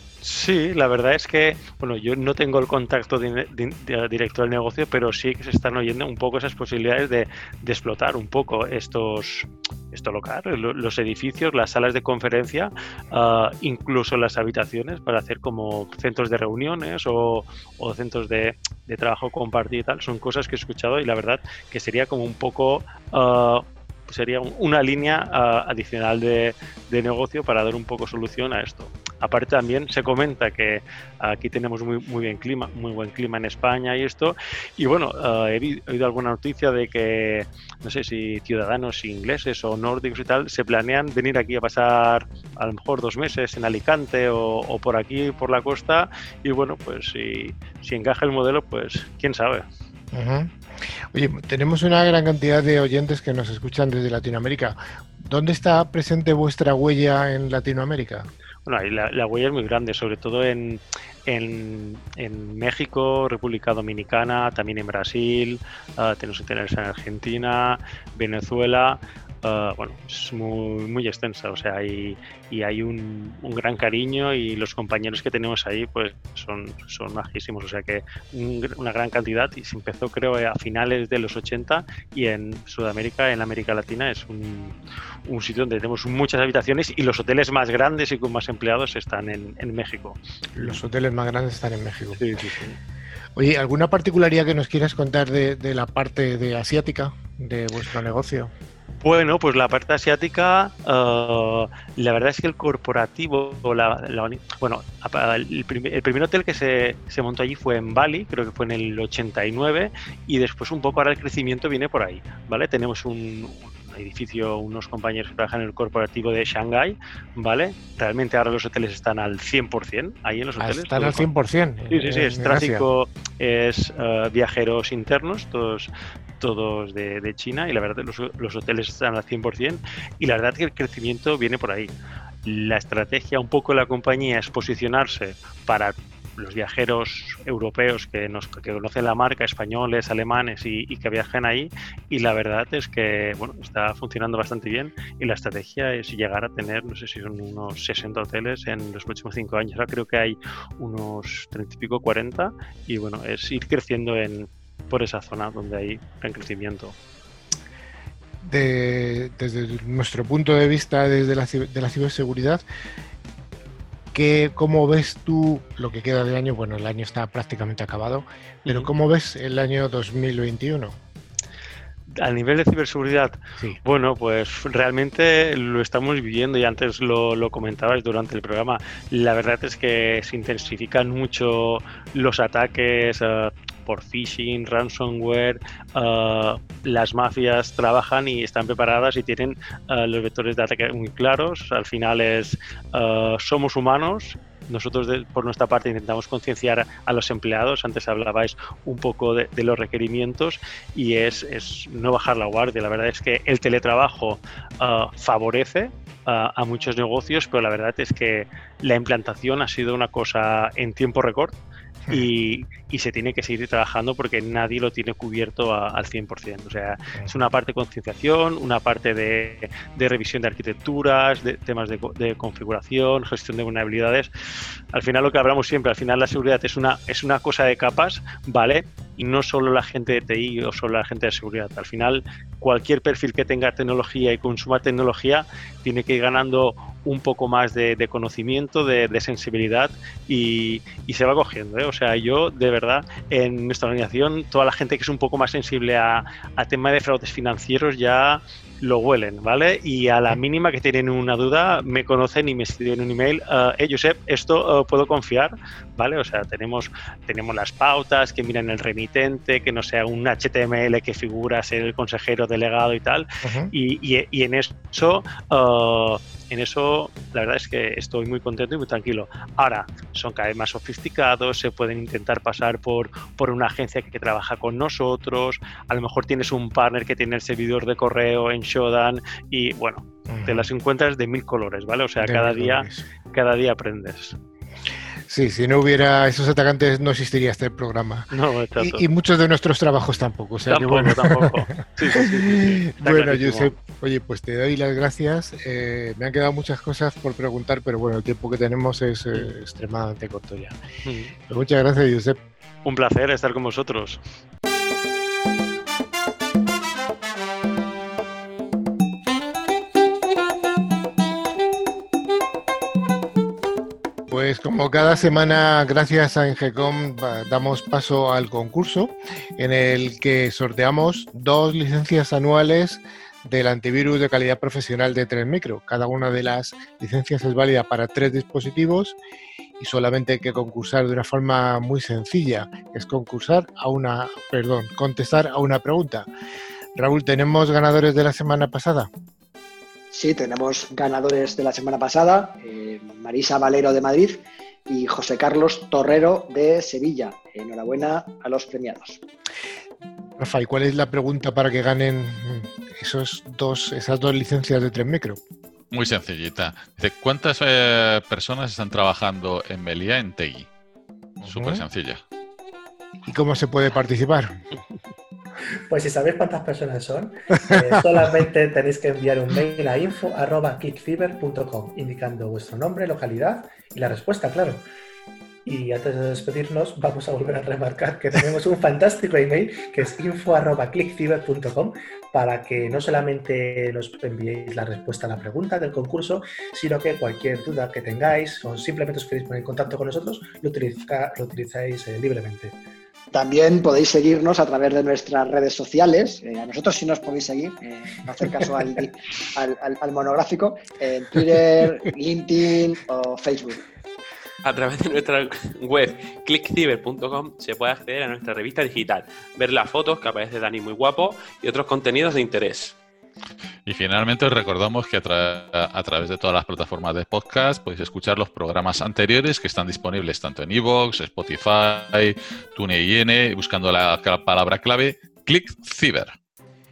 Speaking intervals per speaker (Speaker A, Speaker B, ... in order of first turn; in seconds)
Speaker A: 0.2-49.7, 58.7-84.7, 85.3-90.8, 92.2-92.8, 99.0-121.3, 121.9-131.9, 132.4-157.0, 172.2-211.6, 212.1-224.3, 224.9-284.4, 288.3-289.1, 290.7-293.7, 301.1-301.3, 302.9-304.2
Speaker B: 50.1-50.5, 51.1-58.3, 90.5-92.2, 93.4-98.5, 120.6-122.8, 158.4-162.6, 164.1-171.0, 263.4-263.7, 280.3-280.7, 282.2-283.1, 285.3-300.8, 301.5-302.4, 314.3-329.2, 329.8-336.3, 336.9-339.1, 350.4-355.4, 361.4-361.8, 363.3-364.6
Speaker C: 340.1-349.2, 393.3-403.8
Speaker D: 355.9-360.7, 361.4-362.2, 413.9-426.4
Speaker E: 365.9-374.8, 375.6-392.7
Speaker F: 404.6-413.0